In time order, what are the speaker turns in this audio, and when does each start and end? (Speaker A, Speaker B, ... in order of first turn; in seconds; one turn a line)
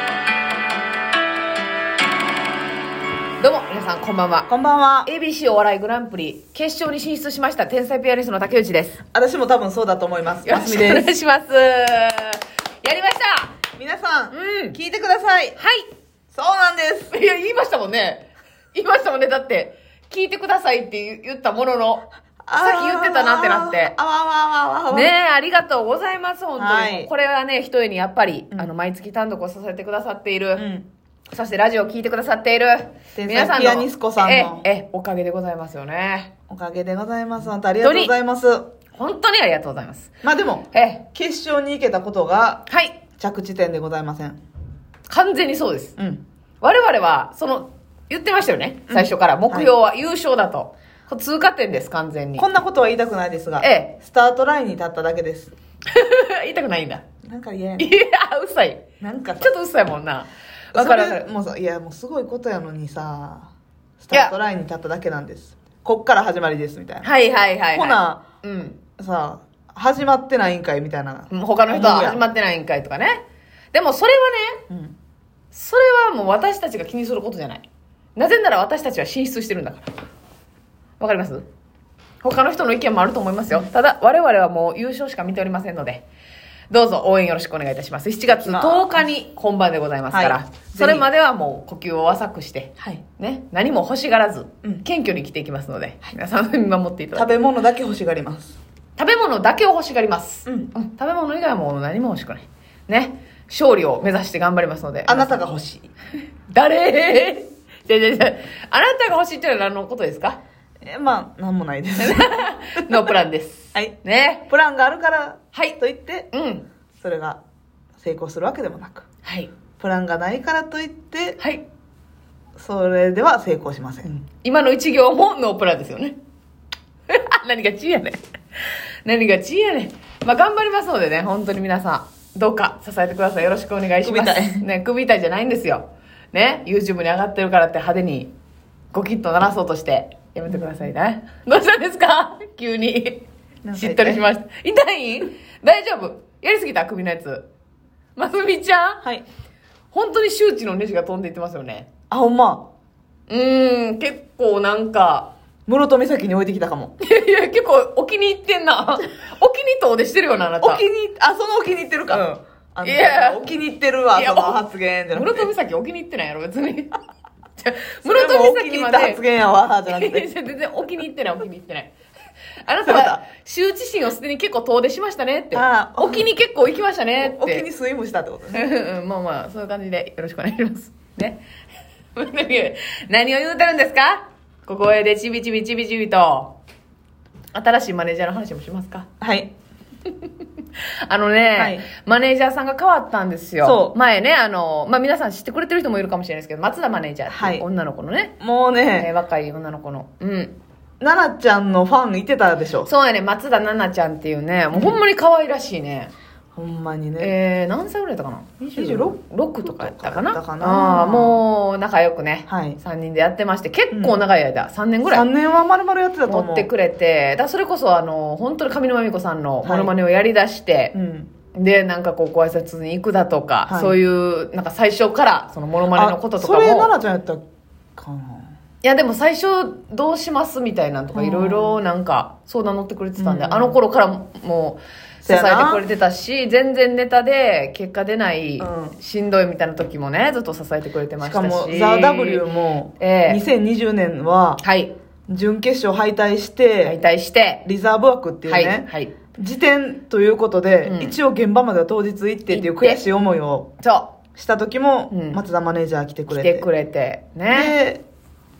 Speaker A: 3.4-4.5
Speaker B: 4.5-5.1
Speaker A: 5.0-9.0
Speaker B: 9.1-11.1
Speaker A: 10.5-13.6
Speaker B: 13.8-15.6
Speaker A: 14.3-14.8
Speaker A: 15.6-15.9
Speaker B: 16.3-17.1
Speaker A: 17.1-22.1
Speaker B: 22.5-25.1
Speaker A: 22.6-23.9
Speaker A: 24.9-30.7
Speaker B: 26.6-27.1
Speaker B: 30.6-30.9
Speaker A: 31.3-36.3
Speaker B: 33.1-34.6
Speaker B: 36.5-38.7
Speaker A: 37.8-38.1
Speaker A: 38.9-40.1
Speaker B: 40.2-44.4
Speaker A: 40.7-41.1
Speaker A: 42.7-43.0
Speaker A: 45.1-46.0
Speaker B: 46.0-46.2
Speaker A: 46.6-52.5
Speaker B: 48.9-49.7
Speaker B: 52.4-55.5
Speaker A: 53.6-54.0
Speaker A: 55.9-57.0
Speaker B: 57.2-57.9
Speaker A: 57.8-58.8
Speaker B: 59.0-59.5
Speaker A: 59.4-61.2
Speaker B: 60.7-67.1
Speaker A: 67.0-68.8
Speaker B: 67.7-68.2
Speaker B: 69.0-72.2
Speaker A: 71.3-73.2
Speaker A: 73.7-74.6
Speaker B: 74.7-75.0
Speaker A: 75.5-77.6
Speaker A: 78.2-79.9
Speaker A: 81.0-81.5
Speaker A: 82.2-86.1
Speaker A: 86.7-97.3
Speaker B: 88.3-88.9
Speaker B: 90.1-91.1
Speaker B: 97.2-98.6
Speaker A: 99.0-105.4
Speaker B: 105.1-105.9
Speaker A: 106.5-110.4
Speaker B: 110.8-113.1
Speaker A: 112.0-114.5
Speaker B: 114.5-116.3
Speaker A: 116.3-116.7
Speaker B: 117.0-117.4
Speaker B: 118.0-119.1
Speaker A: 119.2-119.5
Speaker B: 119.8-121.4
Speaker A: 121.4-121.6
Speaker B: 122.6-124.2
Speaker A: 124.4-126.2
Speaker A: 127.1-128.2
Speaker A: 129.1-138.3
Speaker B: 134.0-134.6
Speaker A: 138.9-147.5
Speaker B: 140.5-140.9
Speaker B: 143.6-144.2
Speaker A: 148.2-149.0
Speaker A: 149.9-151.9
Speaker B: 152.1-152.7
Speaker A: 153.3-155.3
Speaker B: 155.7-156.9
Speaker A: 157.0-160.8
Speaker B: 160.6-165.5
Speaker A: 162.8-163.4
Speaker A: 164.2-164.6
Speaker A: 165.1-167.0
Speaker A: 167.6-169.2
Speaker B: 168.1-170.3
Speaker A: 169.9-171.9
Speaker A: 172.6-177.7
Speaker B: 172.8-173.2
Speaker B: 175.5-176.3
Speaker B: 177.2-178.6
Speaker A: 178.5-181.4
Speaker A: 182.2-186.6
Speaker A: 187.5-189.1
Speaker B: 189.2-189.5
Speaker A: 191.1-198.4
Speaker B: 191.6-191.8
Speaker B: 193.6-193.9
Speaker B: 197.3-197.7
Speaker B: 198.4-199.1
Speaker A: 198.9-200.6
Speaker B: 201.0-202.9
Speaker A: 202.9-206.1
Speaker B: 204.7-205.0
Speaker B: 206.6-207.3
Speaker A: 207.2-215.3
Speaker B: 208.6-211.4
Speaker B: 212.5-212.8
Speaker B: 213.9-214.2
Speaker B: 215.1-216.7
Speaker A: 216.3-220.9
Speaker B: 219.6-219.9
Speaker B: 220.9-221.3
Speaker A: 221.5-226.9
Speaker B: 223.7-224.0
Speaker B: 225.9-227.4
Speaker B: 228.0-228.5
Speaker A: 228.8-242.4
Speaker B: 231.1-231.8
Speaker B: 233.2-233.8
Speaker B: 235.2-235.8
Speaker B: 238.6-239.0
Speaker B: 241.2-244.6
Speaker A: 243.0-243.4
Speaker A: 244.6-244.9
Speaker B: 245.3-247.0
Speaker A: 246.8-247.7
Speaker B: 247.7-253.7
Speaker A: 248.5-249.2
Speaker A: 250.8-251.2
Speaker A: 252.5-253.0
Speaker A: 253.8-254.1
Speaker B: 254.4-256.7
Speaker A: 255.1-255.4
Speaker A: 256.3-257.8
Speaker B: 257.5-258.0